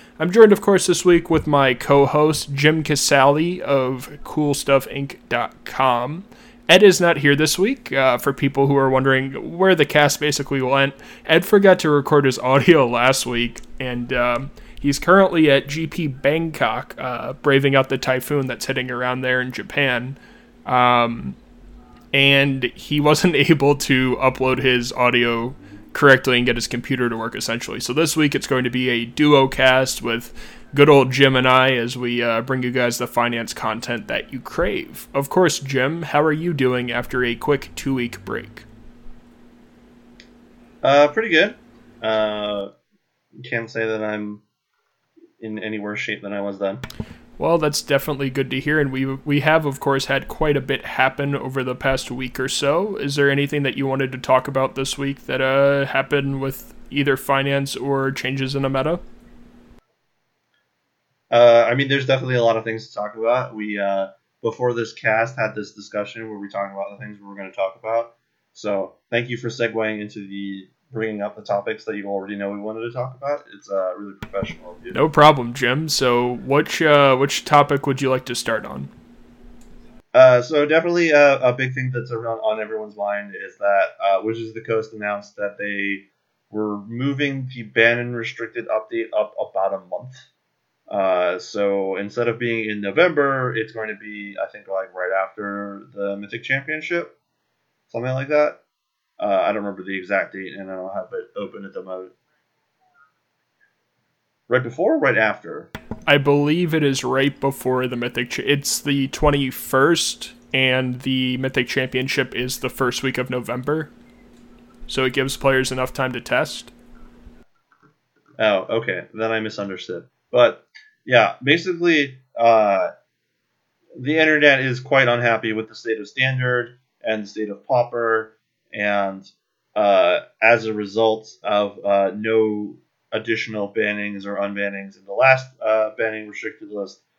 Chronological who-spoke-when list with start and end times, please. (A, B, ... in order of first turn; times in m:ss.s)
0:00.2-0:21.4 A
0:22.1-0:38.7 A
0:40.8-0:42.7 B
0:43.4-0:44.4 B
0:45.4-0:46.8 B
0:47.4-0:59.0 A
1:01.3-1:15.0 B
1:14.9-1:18.9 A
1:20.1-1:30.2 B
1:30.9-1:37.1 B
1:37.9-1:38.6 B
1:39.2-1:42.1 B
1:44.5-1:45.7 B
1:46.1-1:53.9 A
1:54.9-1:56.7 A
1:58.4-2:02.9 B
2:04.0-2:17.0 B